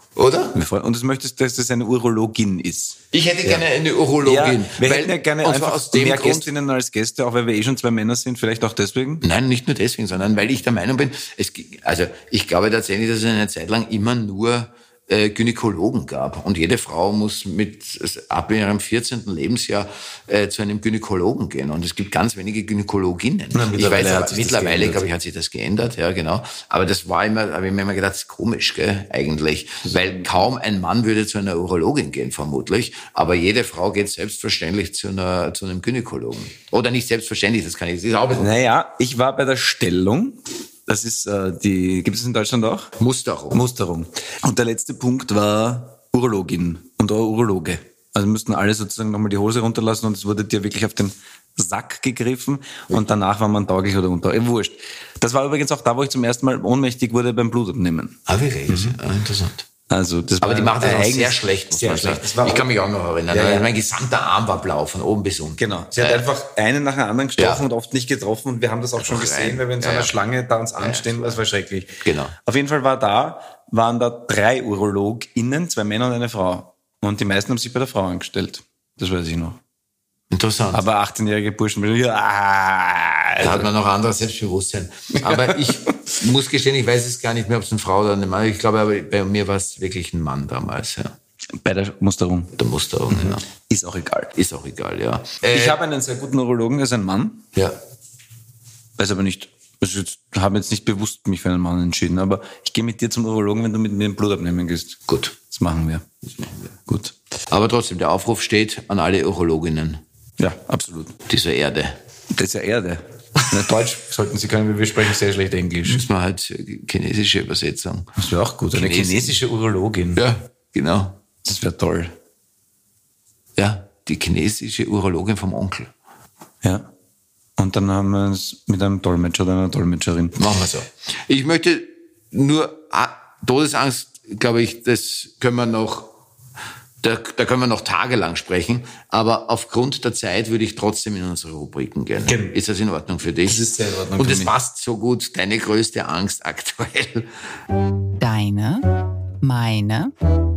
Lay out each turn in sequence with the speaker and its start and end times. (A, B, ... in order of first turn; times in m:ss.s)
0:00.2-0:00.6 A
0:00.5-0:03.6 B
0:03.1-0:06.5 A
0:04.2-0:09.2 B
0:09.2-0:38.5 A
0:23.5-0:25.0 B
0:29.9-0:30.3 B
0:38.3-0:42.9 B
0:43.0-0:43.6 A
0:43.5-0:58.2 B
0:58.3-0:59.6 A
0:58.7-0:59.0 B
0:59.9-1:02.7 B
1:00.4-1:06.3 A
1:03.3-1:03.7 B
1:05.6-1:19.6 B
1:07.4-1:07.6 A
1:09.0-1:10.2 A
1:10.8-1:11.4 A
1:12.0-1:12.4 A
1:20.3-1:20.8 A
1:20.7-1:23.7 B
1:23.4-1:31.2 A
1:25.2-1:25.8 B
1:31.5-1:32.5 B
1:32.5-1:33.4 A
1:33.1-1:34.3 B
1:34.3-1:35.8 A
1:35.4-1:37.4 B
1:39.0-1:46.2 B
1:45.1-1:45.3 A
1:46.9-1:47.1 B
1:47.5-1:50.0 A
1:50.4-1:51.2 B
1:51.3-1:52.0 A
1:52.3-1:56.0 B
1:55.8-1:58.1 A
1:58.2-2:00.2 B
1:58.7-1:59.4 A
2:00.2-2:01.2 A
2:01.4-2:02.2 B
2:03.6-2:05.9 A
2:06.6-2:06.9 B
2:07.6-2:10.4 B
2:10.4-2:16.1 A
2:17.0-2:23.6 A
2:22.3-2:22.6 B
2:23.4-2:24.5 B
2:24.2-2:27.3 A
2:28.2-2:30.1 C